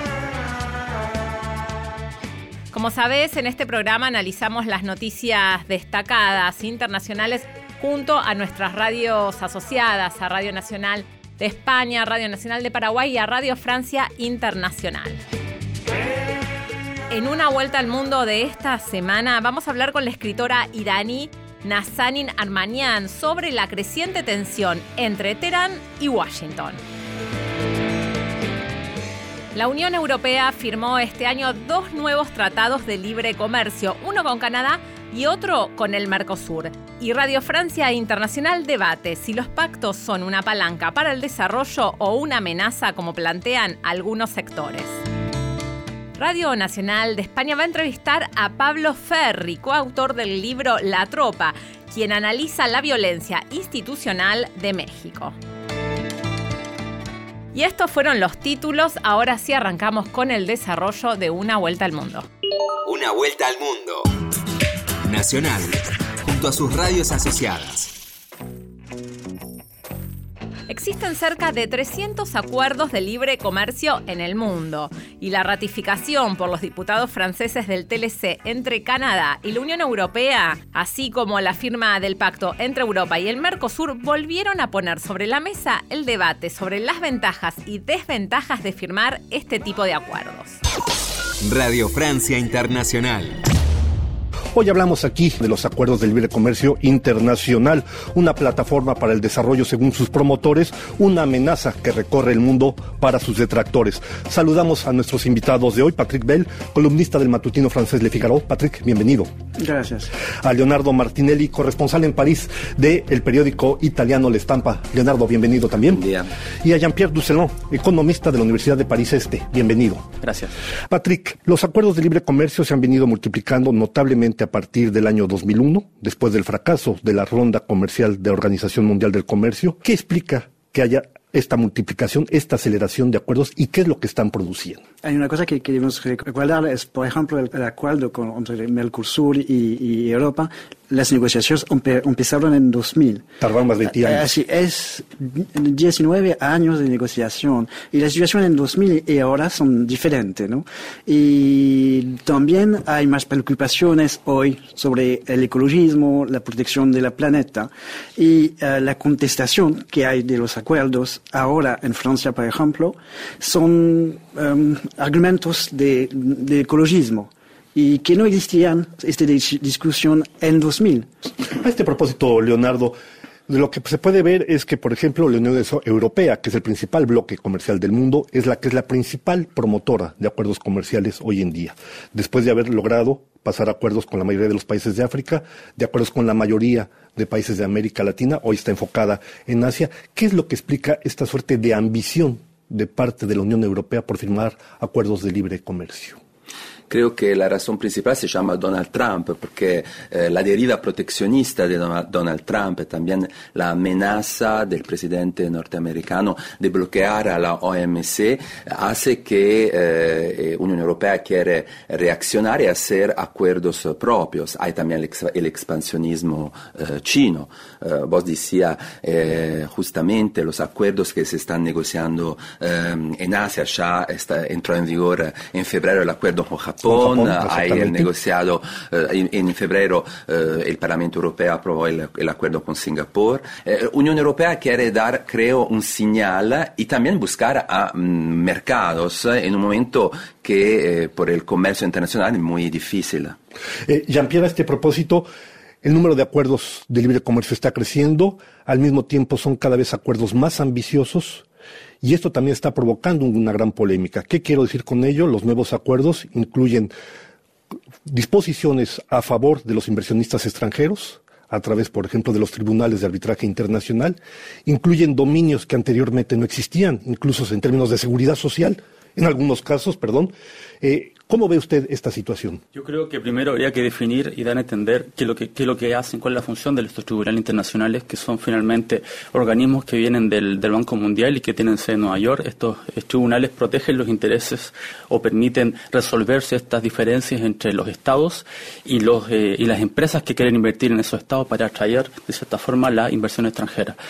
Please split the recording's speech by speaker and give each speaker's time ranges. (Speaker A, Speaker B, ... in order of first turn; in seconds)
Speaker A: 2.7-15.2, 17.1-26.8, 29.6-45.0, 46.2-55.4, 57.5-62.3, 70.7-90.6
Speaker B: 62.9-64.1, 65.1-67.9, 91.5-93.4
Speaker C: 94.5-109.3, 110.4-116.0, 116.6-120.0, 120.9-134.8, 143.4-144.3, 171.4-173.0, 173.5-196.2, 226.8-228.1, 243.9-245.3, 245.8-251.5, 252.0-256.9, 258.1-272.6
Speaker D: 109.6-110.1, 135.0-143.3, 143.9-171.2
Speaker E: 115.9-116.3, 196.9-243.4
Speaker F: 120.2-120.5, 272.7-294.0